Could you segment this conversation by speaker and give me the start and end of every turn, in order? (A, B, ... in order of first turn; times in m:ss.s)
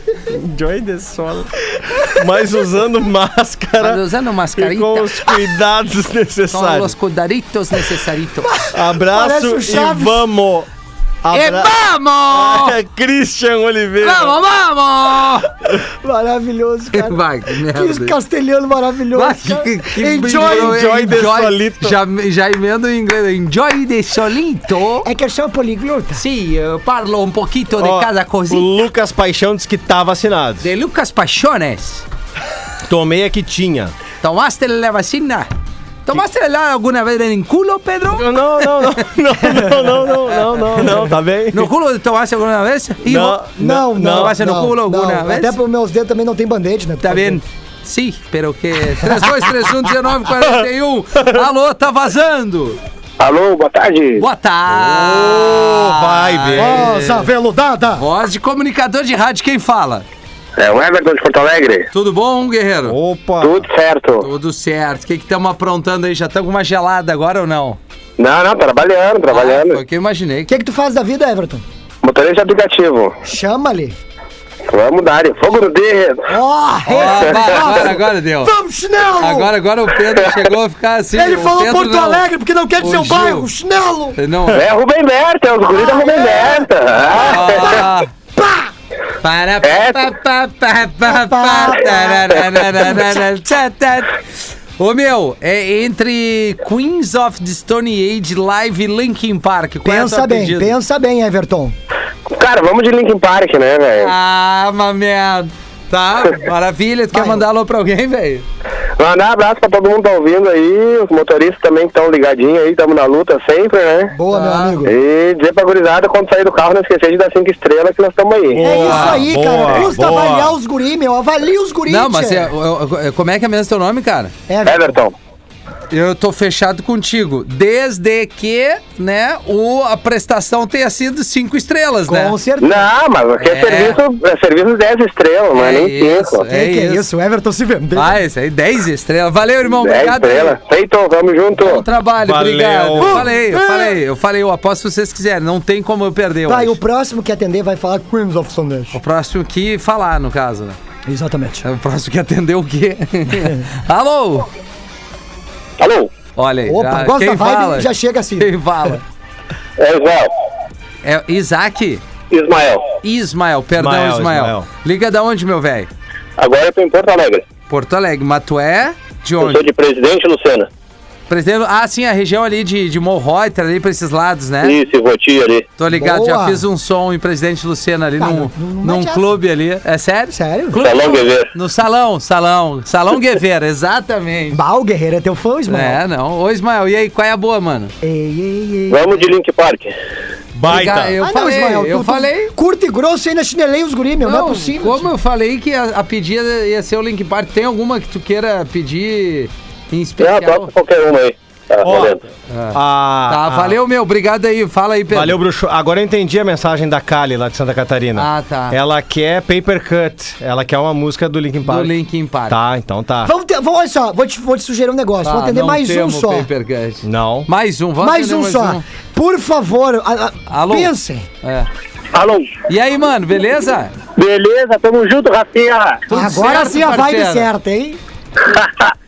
0:00.3-0:04.0 A
0:03.8-0:05.2 B
0:04.6-0:06.9 A
0:06.5-0:08.6 B
0:08.5-0:10.2 C
0:08.7-0:10.7 A
0:11.2-0:11.8 A
0:11.3-0:12.8 B
0:12.3-0:14.4 A
0:14.0-0:15.5 B
0:16.0-0:20.8 C
0:16.9-0:18.2 B
0:19.2-0:25.1 B
0:20.3-0:22.0 A
0:25.0-0:26.2 C
0:26.2-0:28.7 B
0:27.8-0:30.7 A
0:30.6-0:32.0 B
0:32.9-0:33.9 A
0:34.2-0:35.5 B
0:36.1-0:38.9 B
0:38.2-0:41.7 A
0:41.5-0:45.6 B
0:43.0-0:44.4 A
0:43.6-0:47.4 C
0:47.0-0:52.8 B
0:53.2-0:54.2 D
0:54.2-0:57.3 B
0:54.7-0:57.0 A
0:56.6-0:58.0 C
0:58.0-1:00.0 B
1:00.6-1:01.9 D
1:01.9-1:03.0 B
1:02.9-1:03.7 A
1:03.4-1:04.3 D
1:04.2-1:07.8 B
1:08.2-1:09.8 D
1:09.3-1:10.5 B
1:10.5-1:11.6 C
1:12.0-1:13.2 D
1:13.2-1:14.0 C
1:14.7-1:16.3 D
1:16.3-1:19.5 C
1:16.9-1:18.5 B
1:19.2-1:22.2 B
1:21.1-1:24.2 C
1:22.8-1:23.5 B
1:24.2-1:24.6 B
1:24.5-1:27.8 D
1:25.8-1:28.7 C
1:27.1-1:28.1 B
1:29.2-1:34.2 B
1:29.6-1:30.0 D
1:31.0-1:32.9 C
1:34.8-1:40.8 B
1:39.8-1:41.8 C
1:42.3-1:44.1 D
1:44.0-1:48.4 B
1:47.1-1:47.4 C
1:49.0-1:54.2 D
1:54.1-1:54.9 C
1:54.3-1:54.8 B
1:54.9-1:58.6 D
1:58.5-2:00.6 A
1:58.6-2:02.5 C
1:58.8-1:59.2 B
2:01.9-2:04.3 B
2:04.5-2:05.0 C
2:04.6-2:05.1 D
2:05.9-2:12.4 B
2:12.1-2:12.9 C
2:12.6-2:16.5 D
2:13.4-2:14.0 B
2:15.5-2:17.0 B
2:16.5-2:18.2 C
2:18.0-2:20.6 B
2:19.7-2:21.8 D
2:21.6-2:26.8 B
2:22.2-2:23.3 A
2:23.0-2:24.0 C
2:26.5-2:29.0 C
2:28.9-2:30.8 B
2:31.1-2:31.6 C
2:31.6-2:34.5 B
2:35.8-2:36.1 D
2:36.4-2:39.0 B
2:36.7-2:39.0 C
2:39.8-2:40.3 D
2:41.0-2:42.0 B
2:42.3-2:42.8 D
2:43.0-2:45.9 B
2:43.7-2:44.7 A
2:46.4-2:47.4 D
2:47.7-2:49.7 B
2:49.4-2:50.7 D
2:51.3-2:54.8 B
2:54.6-2:55.6 D
2:55.8-3:04.6 B
2:55.9-2:56.6 C
2:58.2-2:59.4 C
3:00.3-3:00.8 C
3:00.8-3:01.5 D
3:04.5-3:06.0 C
3:05.7-3:07.9 B
3:08.0-3:09.3 C
3:08.9-3:09.9 D
3:10.6-3:11.2 A
3:10.6-3:12.5 B
3:11.2-3:15.1 C
3:14.2-3:20.7 B
3:20.2-3:22.2 D
3:21.8-3:22.2 A
3:22.5-3:25.4 B
3:22.7-3:23.8 A
3:25.1-3:31.9 A
3:28.2-3:28.8 B
3:31.6-3:32.6 B
3:32.5-3:33.3 A
3:33.2-3:36.5 C
3:35.2-3:38.8 B
3:37.0-3:37.5 A
3:38.0-3:41.3 C
3:40.5-3:40.9 B
3:41.4-3:41.7 B
3:42.1-3:42.5 D
3:42.7-3:43.9 B
3:44.2-3:46.0 D
3:46.1-3:47.5 B
3:46.1-3:48.0 C
3:48.5-3:48.9 D